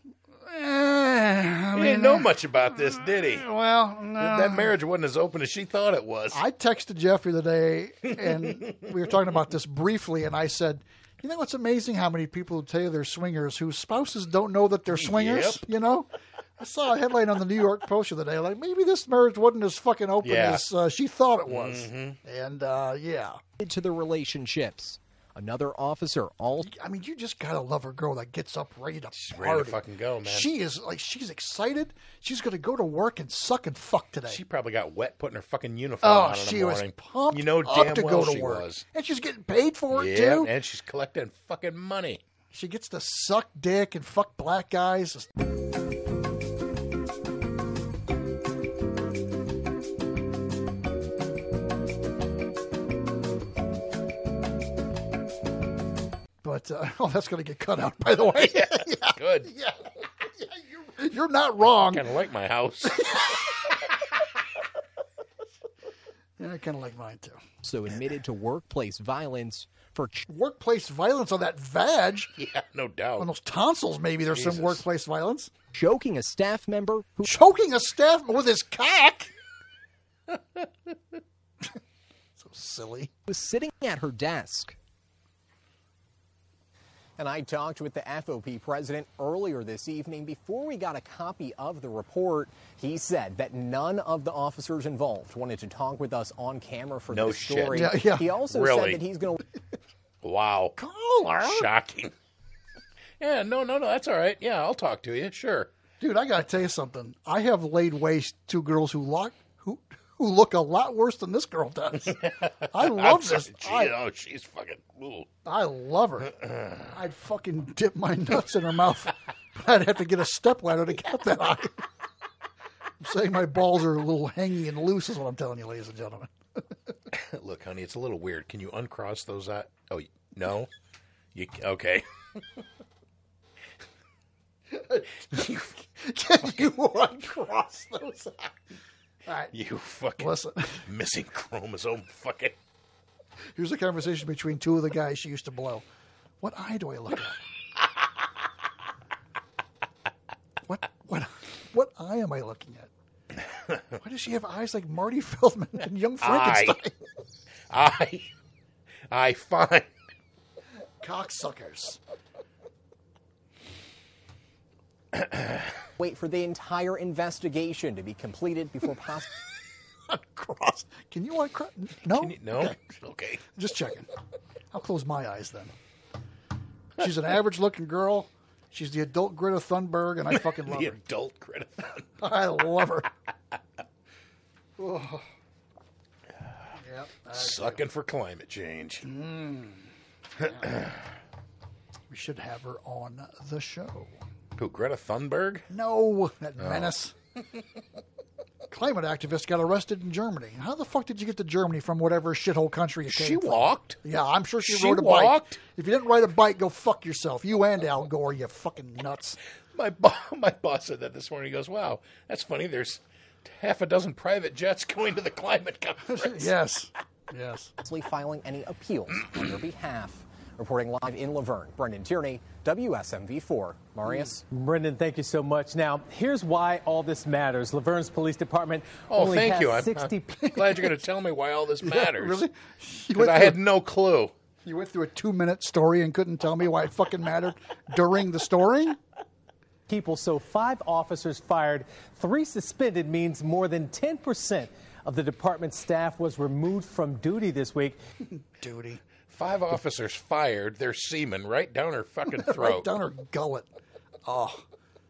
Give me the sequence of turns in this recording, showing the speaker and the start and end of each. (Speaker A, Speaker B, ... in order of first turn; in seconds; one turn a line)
Speaker A: 0.4-4.7
Speaker B: 1.7-3.4
Speaker B: 4.2-6.4
Speaker A: 6.3-23.4
Speaker B: 14.9-15.6
Speaker B: 20.2-20.6
Speaker B: 21.5-22.2
Speaker C: 23.6-26.7
Speaker A: 26.6-34.4
Speaker B: 29.1-30.5
Speaker B: 34.3-38.8
Speaker A: 36.0-40.5
Speaker B: 39.9-42.2
Speaker A: 42.5-45.3
Speaker A: 56.4-62.1
Speaker B: 58.4-59.5
Speaker B: 61.9-63.1
Speaker A: 63.0-63.4
Speaker A: 66.4-67.4
Speaker C: 67.6-70.3
Speaker A: 70.3-72.3
Speaker B: 72.4-73.3
Speaker A: 73.2-75.5
Speaker B: 74.3-74.8
Speaker C: 75.7-77.3
Speaker A: 77.2-79.3
Speaker B: 80.3-80.7
Speaker A: 82.4-83.1
Speaker C: 83.3-84.8
Speaker C: 87.2-99.4
Speaker B: 97.1-97.9
Speaker A: 97.7-98.3
Speaker B: 98.4-99.0
Speaker B: 100.2-100.7
Speaker A: 100.8-101.7
Speaker B: 101.4-102.1
Speaker B: 103.2-105.7
Speaker A: 106.0-114.0
Speaker B: 112.3-115.3
Speaker A: 115.5-121.8
Speaker A: 123.0-126.6
Speaker B: 127.1-130.7
Speaker B: 131.3-132.1
Speaker A: 134.7-138.6
Speaker B: 135.3-135.7
Speaker A: 139.2-139.5
Speaker B: 139.5-140.3
Speaker A: 140.2-140.8
Speaker B: 140.9-142.6
Speaker A: 143.5-145.8
Speaker A: 146.4-147.4
Speaker A: 150.6-152.9
Speaker A: 154.0-156.9
Speaker B: 156.2-156.8
Speaker B: 157.7-158.3
Speaker B: 159.1-159.9
Speaker A: 161.0-162.0
Speaker C: 166.0-169.3
Speaker A: 170.1-172.9
Speaker B: 172.1-173.4
Speaker A: 173.5-174.1
Speaker A: 174.7-175.7
Speaker A: 177.0-181.0
Speaker B: 180.4-182.0
Speaker A: 182.2-183.1
Speaker A: 184.8-185.2
Speaker A: 186.8-187.8
Speaker B: 187.3-189.1
Speaker A: 189.0-190.8
Speaker A: 192.1-194.2
Speaker B: 194.6-195.7
Speaker A: 195.7-197.1
Speaker B: 196.6-196.9
Speaker A: 198.7-209.4
Speaker B: 203.1-204.0
Speaker B: 204.6-205.6
Speaker B: 209.7-216.5
Speaker A: 216.1-217.7
Speaker C: 217.8-224.4
Speaker D: 224.5-230.5
Speaker B: 229.1-232.4
Speaker A: 230.4-231.0
Speaker A: 231.8-233.6
Speaker B: 233.2-234.3
Speaker A: 234.6-239.0
Speaker D: 239.9-248.0
Speaker A: 248.3-249.0
Speaker B: 249.3-252.9
Speaker A: 252.3-253.7
Speaker A: 254.2-254.6